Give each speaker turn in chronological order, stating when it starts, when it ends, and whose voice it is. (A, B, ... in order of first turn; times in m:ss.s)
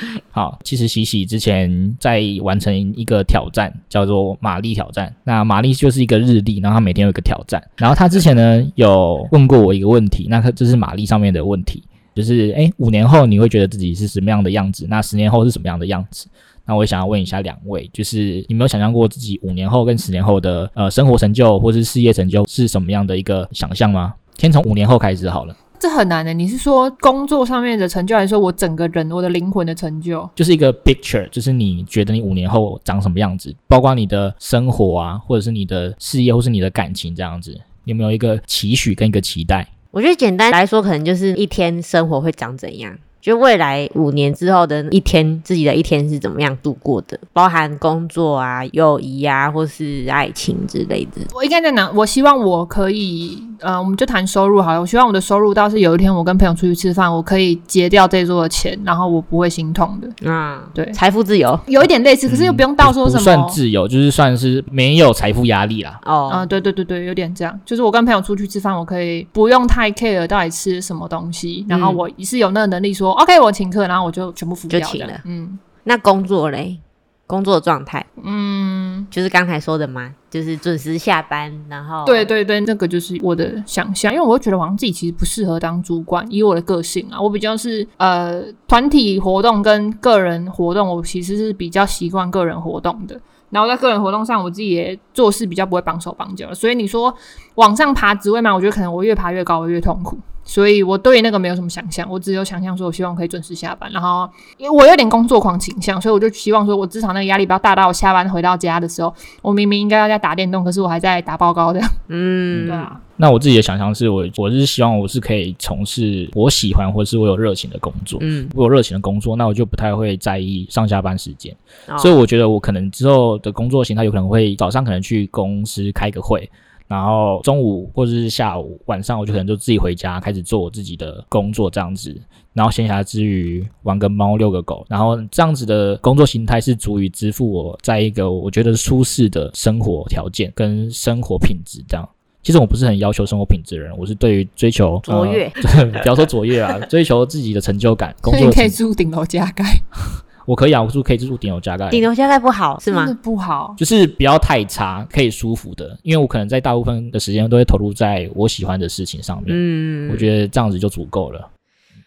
0:00.3-0:25.6 A
0:25.8-0:30.3 B
0:30.4-0:39.7 A
0:39.9-0:51.3 C
0:51.3-1:00.1 B
1:00.2-1:01.6 C
1:01.7-1:03.6 B
1:02.3-1:06.0 A
1:06.0-1:06.5 C
1:06.3-1:15.6 B
1:11.7-1:12.0 C
1:14.7-1:15.2 C
1:15.8-1:18.1 C
1:18.2-1:19.1 B
1:19.1-1:22.3 C
1:22.0-1:52.0 B
1:52.1-1:52.9 C
1:52.5-2:28.8 A
1:52.7-1:53.0 B
1:58.2-1:58.5 C
2:01.9-2:02.1 C
2:25.1-2:25.6 C
2:28.2-2:29.8 B
2:30.5-2:32.1 A
2:31.9-2:33.1 C
2:32.9-2:33.8 B
2:33.8-2:41.5 A
2:39.5-2:40.3 C